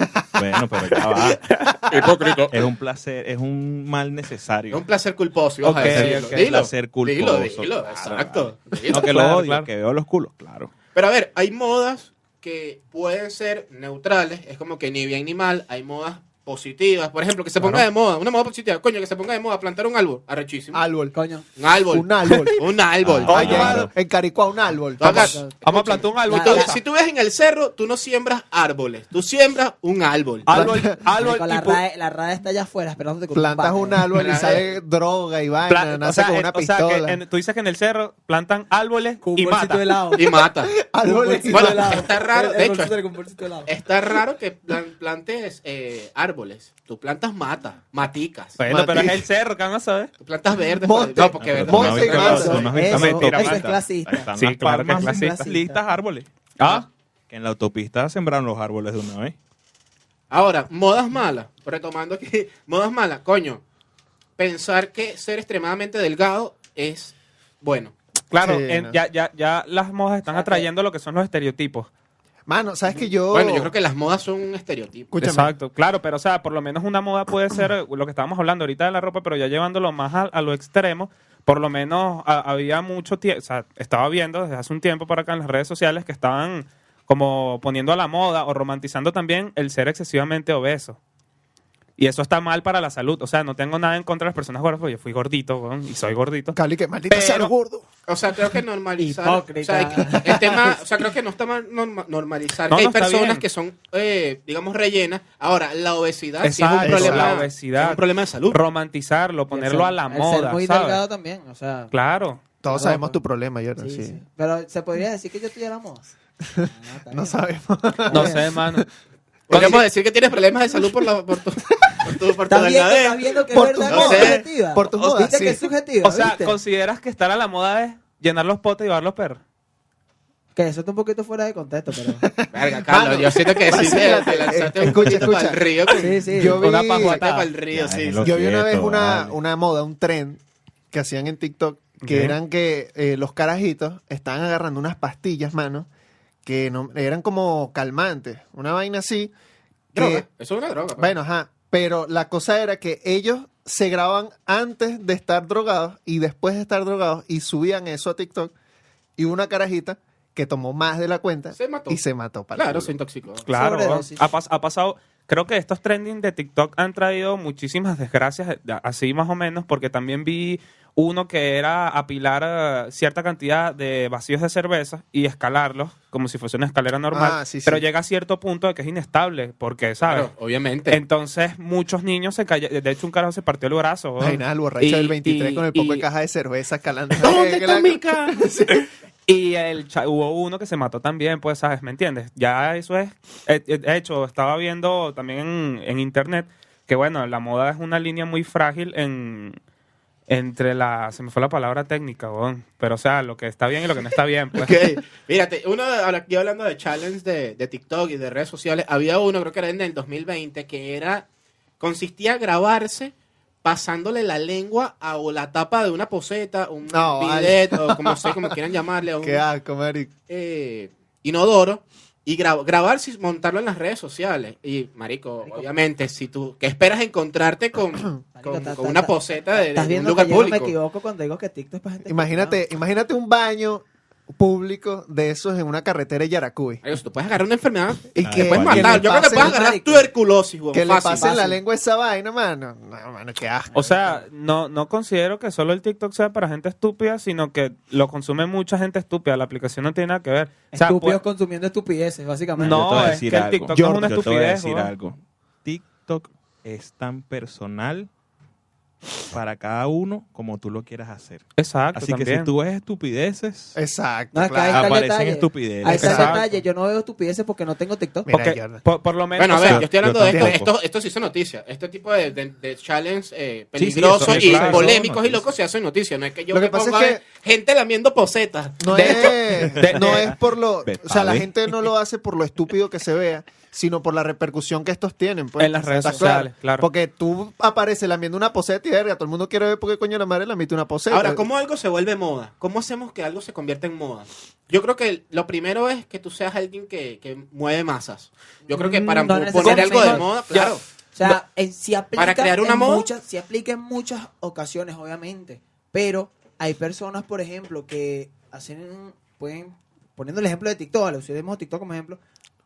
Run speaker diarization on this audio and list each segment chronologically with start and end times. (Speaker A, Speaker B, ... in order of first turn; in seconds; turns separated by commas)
Speaker A: 0.4-1.4, Speaker B: 0.9-2.4, Speaker C: 1.9-2.7, Speaker A: 2.5-4.8, Speaker C: 4.7-9.1, Speaker B: 5.6-6.7, Speaker A: 5.7-10.7, Speaker B: 8.9-9.7, Speaker C: 10.9-20.8, Speaker B: 17.6-17.9, Speaker D: 20.7-21.1, Speaker E: 21.1-21.4, Speaker C: 21.6-22.0, Speaker D: 21.9-22.6, Speaker B: 22.3-22.6, Speaker C: 22.6-23.9, Speaker A: 23.0-23.9, Speaker D: 23.2-25.4, Speaker B: 23.2-23.8, Speaker C: 25.0-30.5, Speaker E: 25.0-26.8, Speaker B: 25.6-26.8, Speaker B: 30.4-31.8, Speaker D: 30.5-31.0, Speaker E: 31.0-34.1, Speaker D: 33.3-37.2, Speaker C: 34.1-34.7, Speaker B: 35.7-39.8, Speaker E: 39.2-40.3, Speaker C: 40.1-40.7, Speaker D: 40.3-42.1, Speaker E: 41.0-43.7, Speaker C: 41.5-42.9, Speaker C: 43.6-48.6, Speaker B: 48.6-50.1, Speaker D: 48.7-49.2, Speaker C: 50.2-52.9, Speaker D: 50.5-52.7, Speaker A: 51.4-56.3, Speaker E: 52.1-54.3, Speaker B: 52.8-53.7, Speaker B: 54.4-55.5, Speaker E: 54.9-55.8, Speaker B: 56.6-56.9, Speaker A: 57.3-59.3, Speaker C: 60.3-63.6, Speaker C: 64.4-67.9, Speaker B: 68.3-71.9, Speaker D: 68.4-69.0, Speaker E: 70.3-70.7, Speaker D: 72.5-73.7, Speaker C: 73.3-75.1, Speaker D: 75.1-75.5, Speaker B: 75.2-91.0, Speaker B: 92.0-96.6, Speaker D: 96.5-97.9, Speaker B: 97.1-97.5, Speaker C: 98.1-108.6, Speaker E: 99.0-100.4, Speaker D: 100.2-100.8, Speaker B: 102.7-103.4, Speaker B: 106.4-111.0, Speaker D: 106.8-107.3, Speaker E: 109.5-111.9, Speaker B: 111.9-112.4, Speaker D: 112.6-114.2, Speaker E: 112.7-113.2, Speaker E: 113.8-117.4, Speaker D: 116.6-118.9, Speaker E: 118.0-118.4, Speaker B: 118.1-118.8, Speaker B: 119.5-119.8, Speaker C: 119.5-123.2, Speaker D: 119.5-119.8, Speaker D: 120.7-121.0, Speaker D: 121.9-122.1, Speaker E: 122.5-126.5, Speaker D: 123.5-125.7, Speaker C: 123.9-124.4, Speaker B: 126.0-129.4, Speaker E: 130.6-132.2, Speaker D: 132.2-135.7, Speaker C: 132.5-138.3, Speaker A: 134.8-135.4, Speaker E: 135.9-136.6, Speaker D: 136.3-137.2, Speaker B: 136.6-137.5, Speaker A: 137.7-139.3, Speaker D: 138.2-140.4, Speaker D: 140.9-145.9, Speaker B: 142.0-142.4, Speaker D: 146.4-149.3, Speaker D: 149.9-150.2, Speaker C: 149.9-151.1, Speaker D: 150.9-158.5, Speaker D: 159.2-162.9, Speaker C: 161.5-162.0, Speaker C: 162.5-163.5, Speaker B: 163.5-180.3, Speaker E: 163.5-164.2, Speaker D: 177.1-177.9, Speaker C: 180.1-181.0, Speaker B: 180.9-186.0, Speaker D: 184.2-188.8, Speaker C: 185.3-185.5, Speaker C: 187.2-188.4, Speaker B: 189.3-199.6, Speaker B: 200.3-204.8, Speaker C: 204.6-211.3, Speaker C: 211.8-219.4, Speaker D: 216.9-218.5, Speaker D: 219.2-220.1, Speaker C: 220.3-230.7, Speaker E: 225.4-225.7, Speaker E: 228.3-232.6, Speaker D: 232.1-236.8, Speaker C: 236.8-241.3, Speaker D: 238.1-239.6, Speaker A: 238.2-239.2, Speaker E: 239.2-240.1, Speaker D: 240.7-244.1, Speaker E: 241.2-241.6, Speaker B: 243.7-251.2, Speaker E: 250.7-253.2, Speaker A: 252.6-258.1, Speaker B: 252.6-254.9, Speaker D: 253.8-254.1, Speaker A: 259.3-263.8, Speaker B: 261.6-262.5, Speaker D: 263.7-264.9, Speaker E: 264.3-268.3, Speaker A: 264.7-266.4, Speaker B: 265.9-266.5, Speaker D: 266.0-266.3, Speaker D: 268.3-268.8, Speaker B: 268.3-269.9, Speaker C: 269.4-279.3, Speaker A: 269.6-270.7, Speaker D: 270.2-270.6, Speaker A: 273.8-275.4, Speaker B: 274.2-274.9, Speaker D: 276.5-277.2, Speaker D: 278.8-291.4, Speaker B: 278.9-280.4, Speaker A: 279.6-280.3, Speaker A: 280.8-281.5, Speaker B: 285.6-286.9, Speaker C: 291.1-300.8, Speaker E: 298.7-300.3, Speaker B: 299.6-300.6, Speaker E: 301.1-312.2, Speaker C: 302.1-303.1